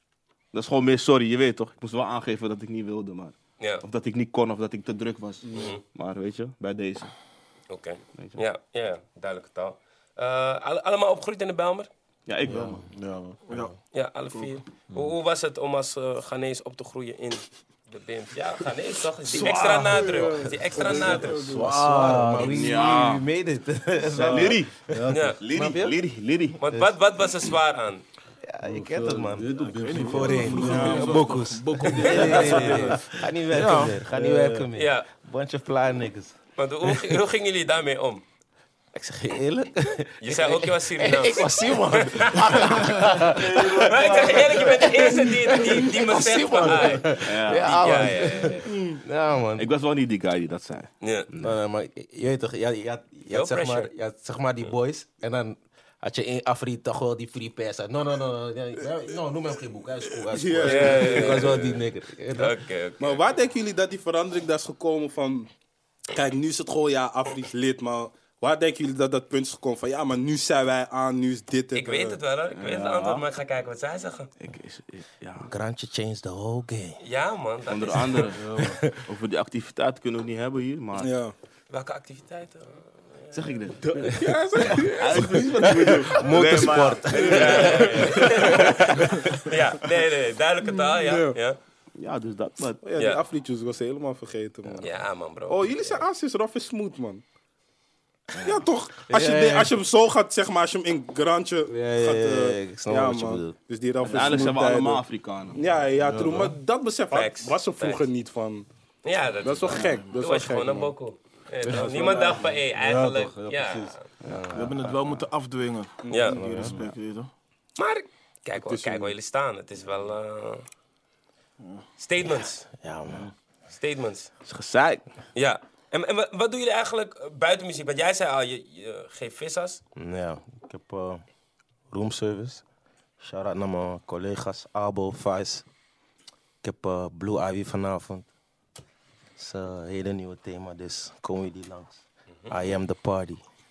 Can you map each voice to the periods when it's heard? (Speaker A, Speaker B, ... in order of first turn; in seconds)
Speaker A: 0.5-7.1, 12.3-12.8, 22.4-23.2, 24.1-26.6, 47.2-47.9, 49.5-51.5, 72.5-73.2, 74.4-75.5, 77.7-78.5, 79.0-81.1, 83.3-88.6, 92.0-92.8, 104.0-105.6, 114.2-114.5, 124.4-125.0
Speaker B: 5.5-5.8, 7.7-11.9, 13.9-21.6, 25.1-25.4, 26.6-28.0, 34.7-35.1, 36.6-38.2, 40.2-42.7, 43.6-48.7, 51.0-51.3, 53.3-53.9, 60.6-63.2, 71.7-74.3, 77.0-78.2, 81.7-83.4, 87.2-91.6, 93.0-93.2, 94.8-95.6, 107.1-108.0, 109.0-114.0, 116.1-116.4, 117.8-120.7, 122.0-122.7, 123.7-124.3, 125.3-129.8
Speaker C: 12.4-13.4, 14.9-15.2, 21.5-22.7, 24.1-25.4, 28.6-31.3, 32.0-33.2, 34.1-34.7, 43.3-44.5, 78.3-78.8, 106.0-106.5, 111.6-115.1
Speaker D: 12.5-12.8, 13.5-13.8, 14.3-14.6, 19.3-21.4, 29.7-34.0, 109.7-110.2, 114.5-117.3, 121.6-121.8
Speaker E: 19.9-21.8, 30.7-31.0, 48.7-49.0, 60.3-61.5, 63.0-65.5, 66.1-72.2, 81.0-81.3, 83.8-86.2, 87.2-88.7, 90.7-91.3, 92.8-94.9, 95.5-97.2, 98.4-105.0, 105.5-108.7, 109.4-110.9, 111.9-112.4, 116.0-116.4, 118.5-119.1
Speaker F: 21.5-26.0, 28.4-37.1, 38.9-49.7, 51.4-62.6, 75.5-77.0, 78.6-78.9, 86.1-89.2, 99.1-99.8, 101.7-103.5, 114.3-114.7, 116.3-116.7, 122.7-123.3, 129.9-131.2, 131.9-132.6, 133.2-135.7, 136.6-138.3, 139.4-143.4